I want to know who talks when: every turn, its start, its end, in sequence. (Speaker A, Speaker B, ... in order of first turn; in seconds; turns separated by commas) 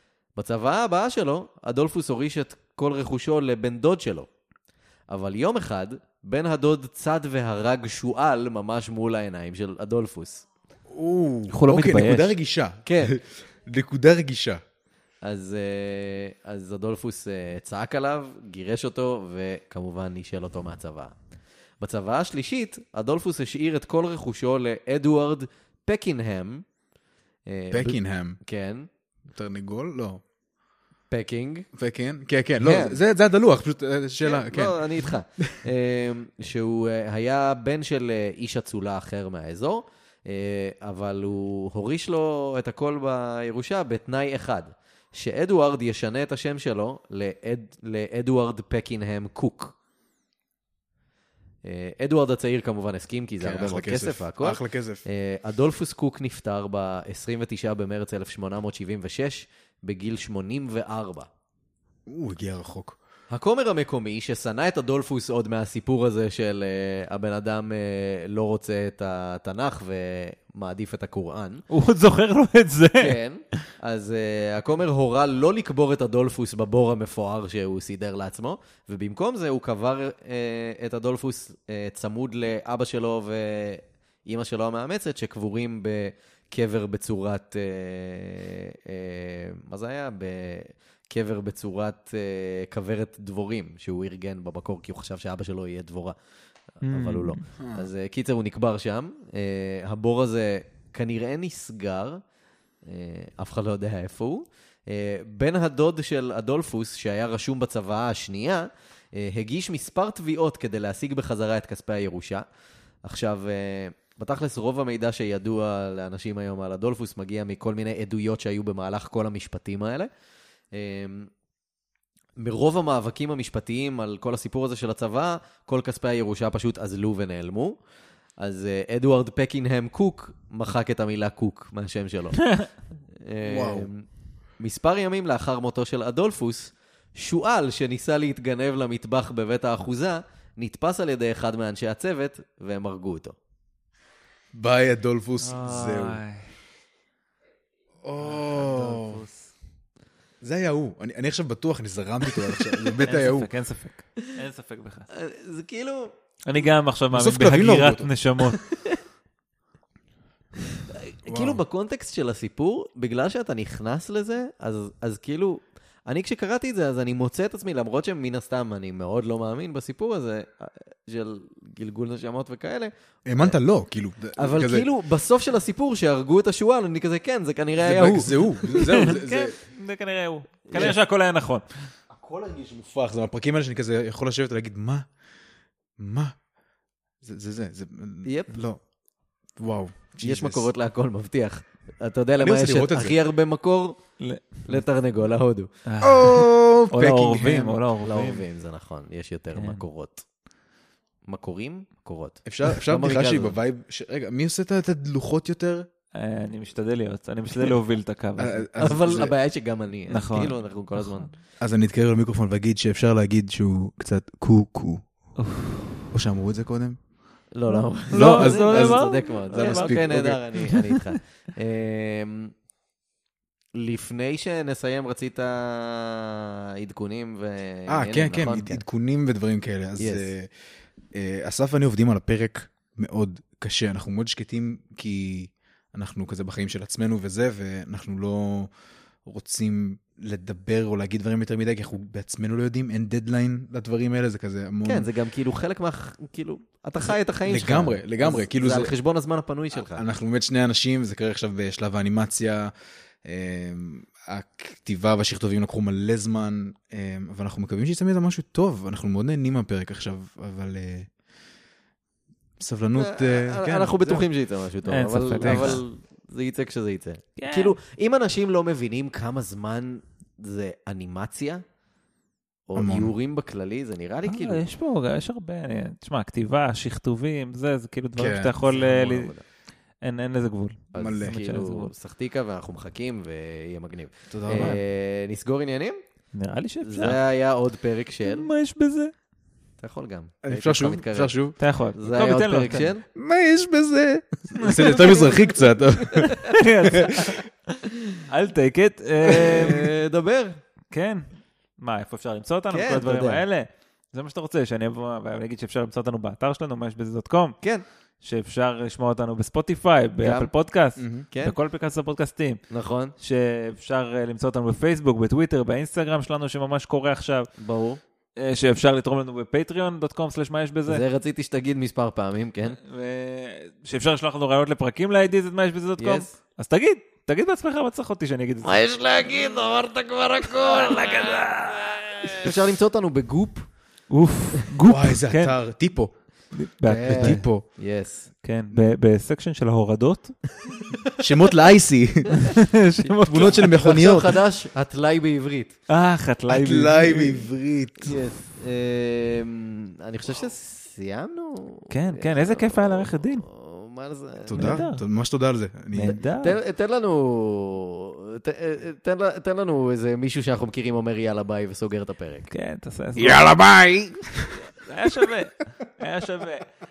Speaker A: 0.4-4.3, Speaker A: 5.1-10.4, Speaker B: 10.9-14.6, Speaker C: 11.5-12.3, Speaker A: 12.8-13.1, Speaker A: 15.2-21.1, Speaker A: 21.8-26.6, Speaker A: 27.5-28.9, Speaker B: 27.7-28.4, Speaker B: 29.3-30.2, Speaker A: 31.1-31.7, Speaker B: 31.7-35.5, Speaker A: 32.6-33.0, Speaker A: 34.2-49.7, Speaker A: 51.6-61.3, Speaker B: 53.4-55.0, Speaker B: 62.1-63.0, Speaker A: 63.3-71.6, Speaker C: 71.7-73.2, Speaker A: 73.0-96.2, Speaker C: 96.8-97.4, Speaker A: 96.9-102.2, Speaker B: 97.6-97.9, Speaker A: 102.8-112.4, Speaker A: 113.0-120.1, Speaker A: 120.7-121.3, Speaker A: 122.4-127.8, Speaker A: 128.4-132.6, Speaker C: 132.4-132.7, Speaker A: 133.3-134.0, Speaker B: 133.4-133.9, Speaker A: 134.6-143.3, Speaker B: 144.5-146.2, Speaker C: 145.4-146.4, Speaker B: 148.0-149.2, Speaker C: 148.2-149.5, Speaker B: 150.4-153.5, Speaker C: 153.1-155.1, Speaker A: 155.1-156.1, Speaker C: 156.4-158.6, Speaker B: 157.1-158.1, Speaker A: 158.6-159.0, Speaker A: 160.8-173.6, Speaker B: 161.3-161.6, Speaker B: 173.3-174.9, Speaker A: 174.4-178.3, Speaker B: 177.8-179.6, Speaker C: 178.7-181.6, Speaker A: 180.7-181.0, Speaker B: 182.1-185.1, Speaker B: 186.0-186.4, Speaker B: 187.2-188.8, Speaker A: 188.2-188.6, Speaker B: 189.6-190.7, Speaker A: 190.2-194.0, Speaker B: 192.4-193.2, Speaker C: 194.2-194.6, Speaker A: 194.6-195.7, Speaker C: 195.9-198.4, Speaker B: 196.0-197.8, Speaker A: 198.0-200.2, Speaker C: 199.6-199.8, Speaker A: 201.3-203.6, Speaker B: 202.4-205.9, Speaker C: 206.1-208.7, Speaker B: 208.4-209.3, Speaker A: 208.8-211.3, Speaker C: 210.1-211.3, Speaker B: 211.6-215.0, Speaker C: 215.4-215.9, Speaker B: 216.1-217.0, Speaker A: 217.5-222.5, Speaker C: 217.7-221.2, Speaker B: 218.1-220.4, Speaker A: 223.8-228.8, Speaker B: 227.9-230.5, Speaker A: 230.0-230.3, Speaker B: 231.1-238.7, Speaker B: 239.3-245.1, Speaker A: 244.9-250.0, Speaker B: 247.4-248.9, Speaker B: 249.9-252.7, Speaker B: 253.2-261.1, Speaker B: 262.6-264.3, Speaker A: 262.9-271.6, Speaker C: 264.9-265.8, Speaker B: 265.4-265.8, Speaker C: 267.4-267.7, Speaker A: 272.7-274.6, Speaker B: 272.8-273.1, Speaker C: 274.3-279.3, Speaker B: 278.2-278.6, Speaker A: 278.7-279.4, Speaker C: 280.0-281.9, Speaker A: 280.9-286.0, Speaker B: 281.0-281.4, Speaker B: 284.3-284.8, Speaker C: 284.5-284.8, Speaker C: 286.3-287.2, Speaker A: 286.8-288.5, Speaker C: 288.2-289.1, Speaker A: 289.8-291.4, Speaker B: 290.4-291.6, Speaker C: 291.6-292.9, Speaker A: 291.9-293.1, Speaker B: 293.1-297.4, Speaker C: 294.6-295.3, Speaker A: 294.7-295.4, Speaker A: 296.1-296.6, Speaker C: 296.3-297.4, Speaker A: 297.8-298.2, Speaker C: 298.3-299.9, Speaker A: 299.2-300.6, Speaker C: 300.9-301.3, Speaker C: 301.8-307.6, Speaker A: 302.7-303.4, Speaker C: 308.2-312.6, Speaker A: 310.2-311.6, Speaker A: 312.7-313.1, Speaker C: 313.2-317.5, Speaker A: 317.6-318.0, Speaker C: 318.4-321.0, Speaker A: 320.9-322.8, Speaker C: 322.8-328.8, Speaker A: 326.0-326.3, Speaker A: 328.6-333.7, Speaker C: 330.6-332.5, Speaker C: 334.1-335.6, Speaker B: 334.9-336.1, Speaker C: 336.5-337.4, Speaker A: 336.9-338.3, Speaker B: 337.0-337.6, Speaker C: 338.4-340.4, Speaker A: 340.6-341.2, Speaker B: 341.2-342.5, Speaker C: 342.4-343.8, Speaker B: 343.3-344.4, Speaker A: 343.3-345.8, Speaker C: 345.9-347.4, Speaker B: 346.5-348.2, Speaker A: 348.0-354.8, Speaker C: 351.9-353.4, Speaker B: 354.4-356.2, Speaker C: 354.6-355.0, Speaker C: 355.9-356.6, Speaker A: 356.4-362.5, Speaker C: 362.5-363.4, Speaker B: 363.1-364.6, Speaker C: 364.6-366.6